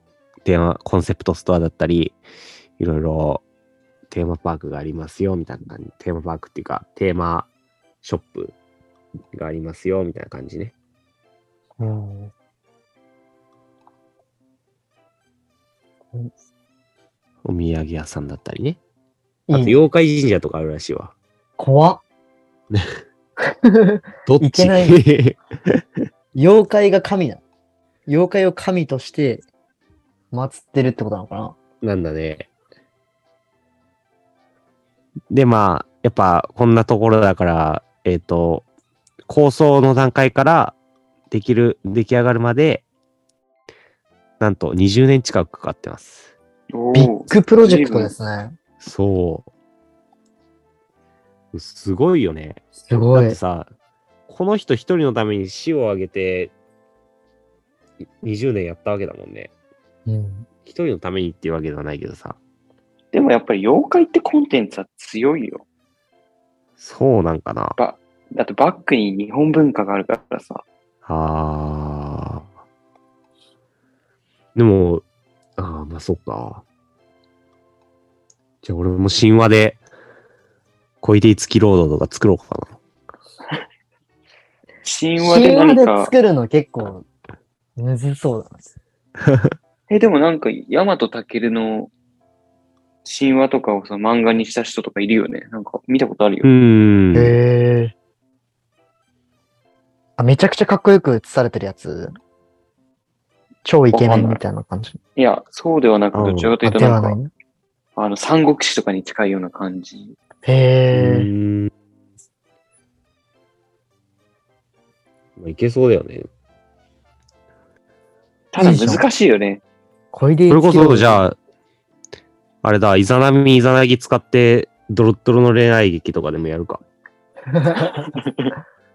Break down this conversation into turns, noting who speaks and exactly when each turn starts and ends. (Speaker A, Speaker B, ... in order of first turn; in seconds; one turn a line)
Speaker A: 0.4-2.2
Speaker A: 2.8-3.4
Speaker A: 4.1-7.5
Speaker A: 8.0-8.5
Speaker A: 9.3-10.7
Speaker B: 11.8-12.3
Speaker A: 17.4-18.8
Speaker B: 19.5-19.8
Speaker A: 19.5-21.1
Speaker B: 21.6-22.0
Speaker A: 22.7-23.0
Speaker B: 23.5-25.0
Speaker A: 24.2-26.0
Speaker B: 26.3-27.4
Speaker B: 28.1-29.4
Speaker B: 30.3-31.6
Speaker A: 31.8-32.5
Speaker A: 35.3-38.6
Speaker A: 39.3-40.8
Speaker A: 41.3-42.8
Speaker A: 44.4-46.3
Speaker C: 46.7-48.1
Speaker B: 46.9-48.5
Speaker A: 48.8-49.5
Speaker A: 51.5-53.7
Speaker B: 52.9-53.4
Speaker A: 54.3-56.5
Speaker A: 58.2-59.5
Speaker B: 60.0-60.5
Speaker A: 60.6-62.4
Speaker C: 63.1-65.6
Speaker A: 66.8-67.8
Speaker C: 67.8-70.6
Speaker A: 71.0-72.5
Speaker A: 74.5-75.0
Speaker A: 75.6-76.6
Speaker A: 78.6-79.8
Speaker A: 81.0-82.8
Speaker C: 84.8-86.1
Speaker B: 85.2-87.0
Speaker B: 87.8-88.6
Speaker A: 89.2-89.5
Speaker C: 89.9-91.9
Speaker C: 93.0-96.5
Speaker A: 96.4-97.4
Speaker B: 97.1-97.9
Speaker B: 100.2-102.2
Speaker B: 103.6-105.0
Speaker C: 103.9-104.4
Speaker C: 105.2-107.2
Speaker A: 106.1-106.5
Speaker B: 106.6-107.3
Speaker C: 108.0-110.2
Speaker B: 110.4-111.3
Speaker A: 110.9-111.7
Speaker A: 115.4-116.3
Speaker C: 118.5-119.6
Speaker B: 118.6-119.0
Speaker B: 120.1-121.2
Speaker A: 120.5-121.4
Speaker A: 122.6-126.8
Speaker B: 127.5-128.1
Speaker C: 128.1-128.5